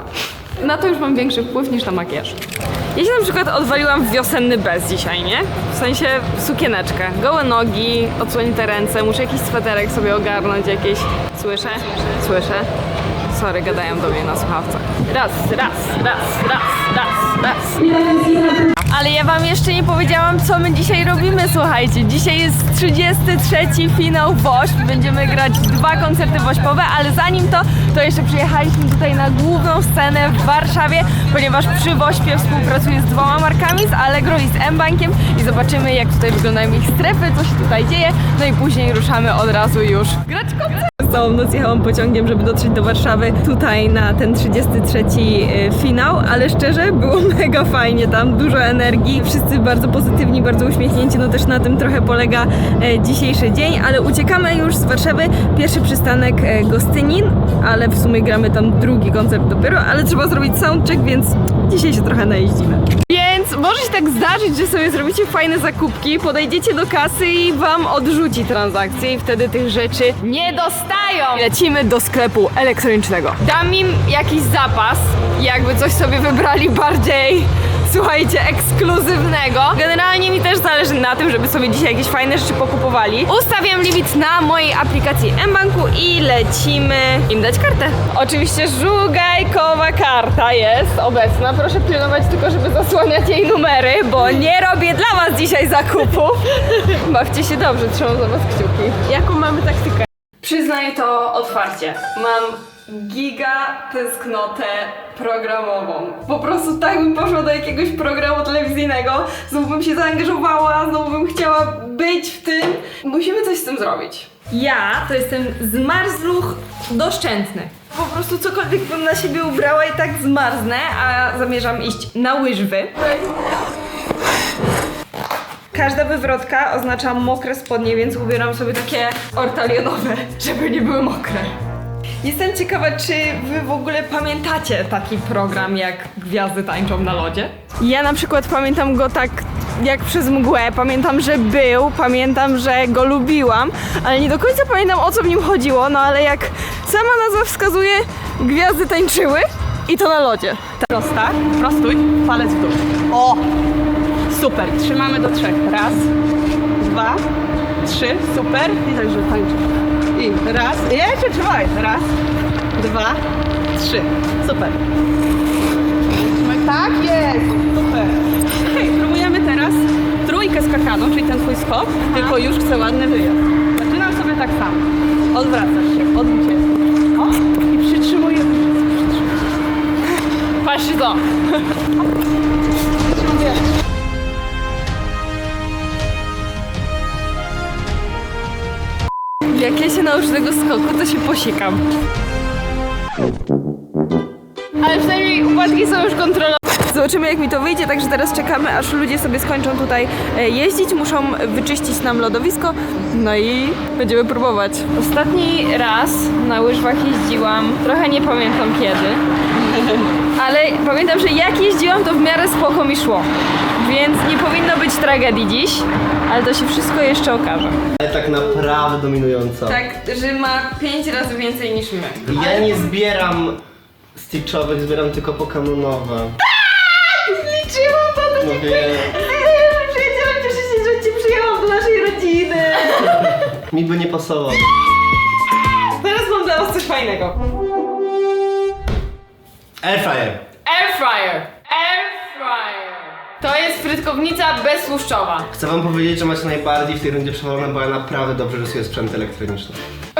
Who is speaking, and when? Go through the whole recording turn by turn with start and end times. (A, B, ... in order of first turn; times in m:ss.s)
0:00.6-0:02.4 A
0:02.9-0:12.7 A
0:13.3-2:03.2 A
2:05.7-2:11.5 A
2:12.2-2:30.8 A
2:30.9-2:33.4 B
2:34.3-2:36.1 B
2:36.8-2:37.2 B
2:37.8-2:42.1 B
2:42.8-2:43.2 B
2:43.7-2:44.8 B
2:46.1-2:59.3 B
2:52.0-2:52.3 A
3:00.6-3:01.4 A
3:03.2-3:03.6 B
3:09.5-3:11.8 A
3:14.8-3:37.8 A
3:38.0-3:39.8 C
3:39.6-3:42.8 A
3:42.3-3:43.6 C
3:44.1-3:46.4 C
3:46.6-3:53.4 A
3:48.4-3:49.2 C
3:53.5-3:54.7 C
3:55.9-3:57.4 A
3:59.8-4:00.4 C
4:00.6-4:05.5 A
4:05.5-4:09.8 C